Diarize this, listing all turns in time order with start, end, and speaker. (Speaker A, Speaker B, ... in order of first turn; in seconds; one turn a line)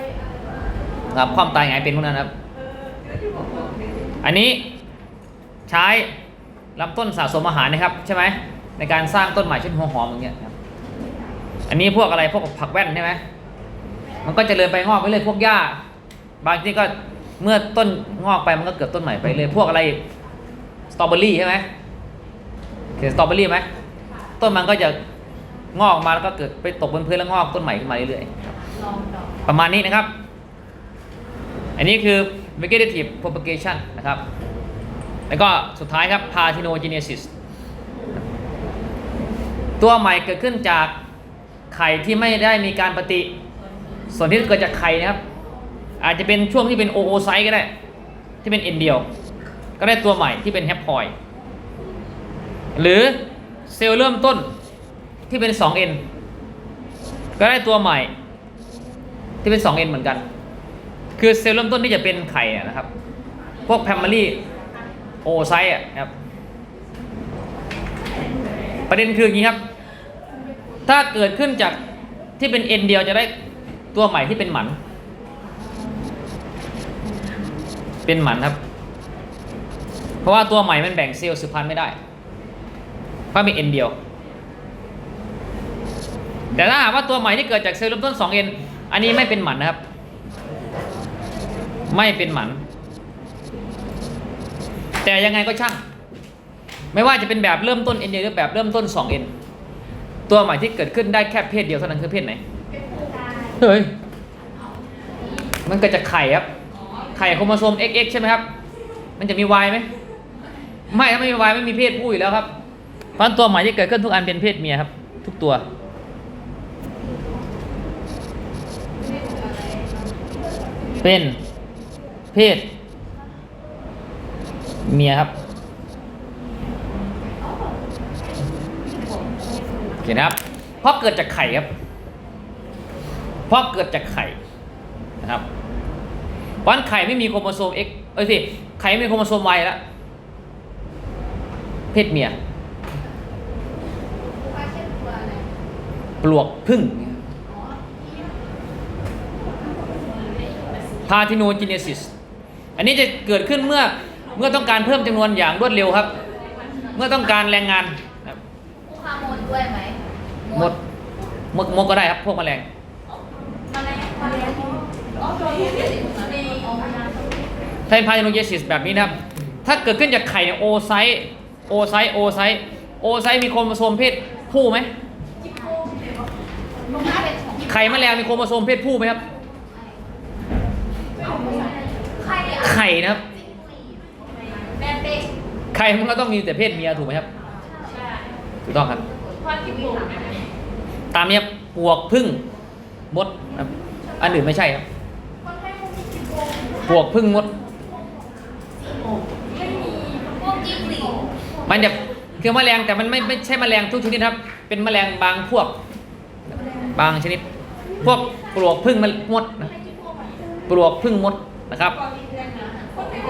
Speaker A: 1.1-2.3
Speaker A: 4.2-4.7
Speaker A: 5.7-6.1
Speaker A: 6.8-10.6
Speaker A: 11.7-13.2
Speaker A: 14.2-15.8
Speaker A: 16.4-20.0
Speaker A: 20.9-21.6
Speaker A: 23.0-23.7
Speaker A: 24.4-25.0
Speaker A: 25.7-28.3
Speaker A: 29.5-30.1
Speaker A: 31.8-34.2
Speaker A: 35.3-37.3
Speaker A: 39.8-40.9
Speaker A: 41.7-43.4
Speaker A: 44.1-45.2
Speaker A: 46.0-47.7
Speaker A: 48.4-49.1
Speaker A: 49.8-51.1
Speaker A: 52.8-54.5
Speaker A: 55.3-56.0
Speaker A: 57.4-58.1
Speaker A: 59.4-60.2
Speaker A: 61.2-62.9
Speaker A: 63.6-64.4
Speaker A: 65.2-66.1
Speaker A: 68.9-69.6
Speaker A: 70.9-71.8
Speaker A: 72.4-73.3
Speaker A: 73.9-74.8
Speaker A: 78.1-78.6
Speaker A: 80.2-82.0
Speaker A: 83.3-84.0
Speaker A: 86.5-89.8
Speaker A: 91.9-92.6
Speaker A: 95.0-95.8
Speaker A: 96.9-99.3
Speaker A: 100.3-102.4
Speaker B: 103.0-103.5
Speaker A: 103.6-103.9
Speaker A: 105.7-106.5
Speaker A: 107.1-108.5
Speaker A: 109.2-109.9
Speaker A: 110.9-112.5
Speaker A: 113.2-115.6
Speaker A: 121.0-121.4
Speaker A: 122.3-122.7
Speaker A: 124.8-125.3
Speaker A: 130.0-131.7
Speaker A: 133.5-134.4
Speaker A: 136.6-139.8
Speaker A: 141.9-142.3
Speaker B: 144.5-145.4
Speaker A: 146.2-147.2
Speaker B: 147.5-147.8
Speaker A: 151.1-152.1
Speaker A: 152.8-156.1
Speaker A: 156.9-158.4
Speaker B: 158.9-160.0
Speaker A: 160.5-160.8
Speaker A: 161.5-162.7
Speaker B: 163.7-167.0
Speaker A: 167.9-174.9
Speaker B: 175.4-175.9
Speaker B: 176.9-177.8
Speaker A: 177.6-179.2
Speaker B: 181.2-185.3
Speaker A: 182.6-183.2
Speaker A: 185.7-187.3
Speaker B: 187.6-188.2
Speaker A: 188.7-189.1
Speaker B: 189.2-190.5
Speaker A: 191.1-192.4
Speaker A: 193.1-194.8
Speaker B: 195.7-196.0
Speaker A: 196.8-197.5
Speaker B: 199.9-201.3
Speaker A: 201.7-205.8
Speaker A: 206.9-207.4
Speaker A: 208.0-209.7
Speaker A: 210.7-212.0